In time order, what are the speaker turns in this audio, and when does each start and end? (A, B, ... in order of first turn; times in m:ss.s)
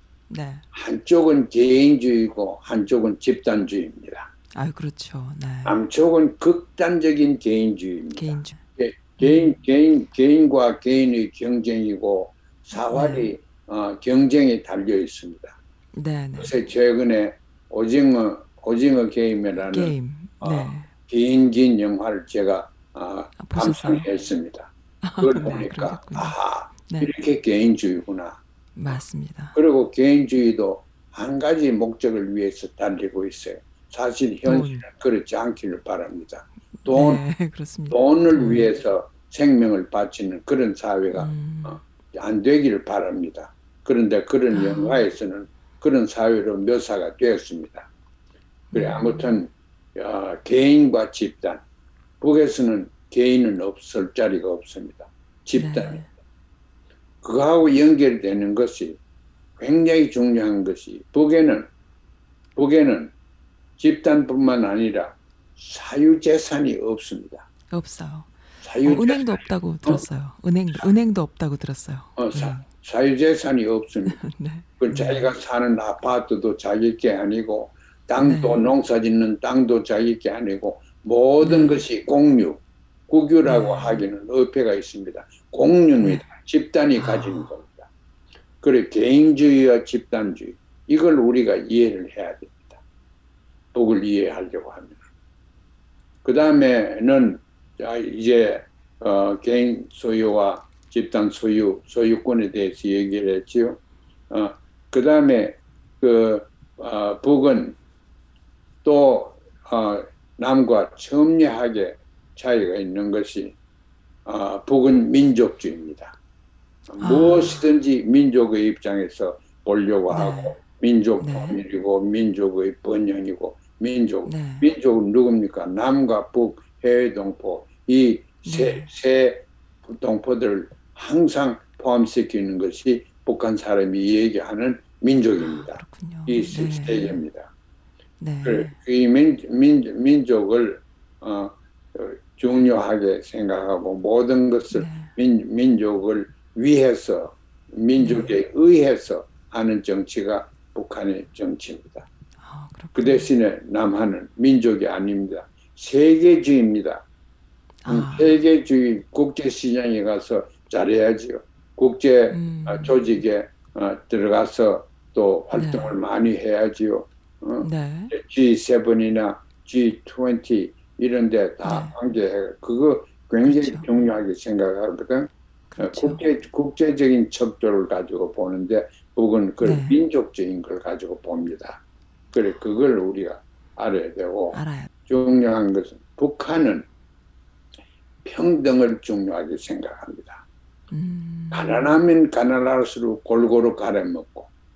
0:00.3-0:00.6 A
0:00.7-0:04.3 B
0:04.5-0:05.8 A
0:05.6-0:15.6 B
0:08.2-0:08.6 A
0:09.2-0:09.5 A
0:12.9-0:13.3 A
0:16.0-0:16.5 A
0:16.4-0:28.4 B
0:19.7-0:20.9 A
0:23.4-0:24.0 A
0:25.0-0:26.3 A
0:28.8-0:29.6 A
0:29.5-0:37.2 B
0:34.4-0:34.8 A
0:36.8-0:38.7 A
0:37.9-0:47.9 B
0:41.1-0:41.8 A
0:44.5-0:45.0 A
0:48.7-0:49.3 A
0:48.7-0:51.6 B
0:52.2-0:56.1 B
0:55.6-0:56.0 A
0:57.2-0:59.0 B
0:59.6-1:01.7 B
1:02.6-1:03.1 B
1:03.8-1:07.5 B
1:07.7-1:08.3 A
1:08.6-1:10.0 B
1:08.8-1:12.6 A
1:12.2-1:14.2 B
1:14.1-1:15.3 A
1:14.8-1:27.9 B
1:18.2-1:18.6 A
1:21.4-1:21.8 A
1:23.4-1:24.0 A
1:27.0-1:27.4 A
1:28.6-1:32.8 B
1:33.7-1:35.0 B
1:36.2-1:47.8 B
1:48.8-1:53.5 B
1:54.2-1:56.1 B
1:56.9-2:17.5 B
1:57.0-1:57.6 A
2:00.1-2:00.5 A
2:01.2-2:01.6 A
2:04.2-2:04.6 A
2:08.4-2:08.9 A
2:15.4-2:17.2 A
2:18.2-2:18.7 A
2:18.4-2:32.1 B
2:24.7-2:25.1 A
2:28.0-2:28.3 A
2:32.4-2:33.3 A
2:32.9-2:37.0 B
2:37.8-2:38.4 A
2:37.9-3:01.8 B
2:42.3-2:42.9 A
2:45.5-2:45.9 A
2:47.6-2:48.1 A
2:51.6-2:51.9 A
2:53.4-2:53.8 A
2:55.7-2:56.2 A
2:59.6-2:59.9 A
3:02.3-3:06.8 B
3:04.5-3:04.9 A
3:08.2-3:10.4 B
3:10.9-3:11.8 A
3:11.5-3:14.5 B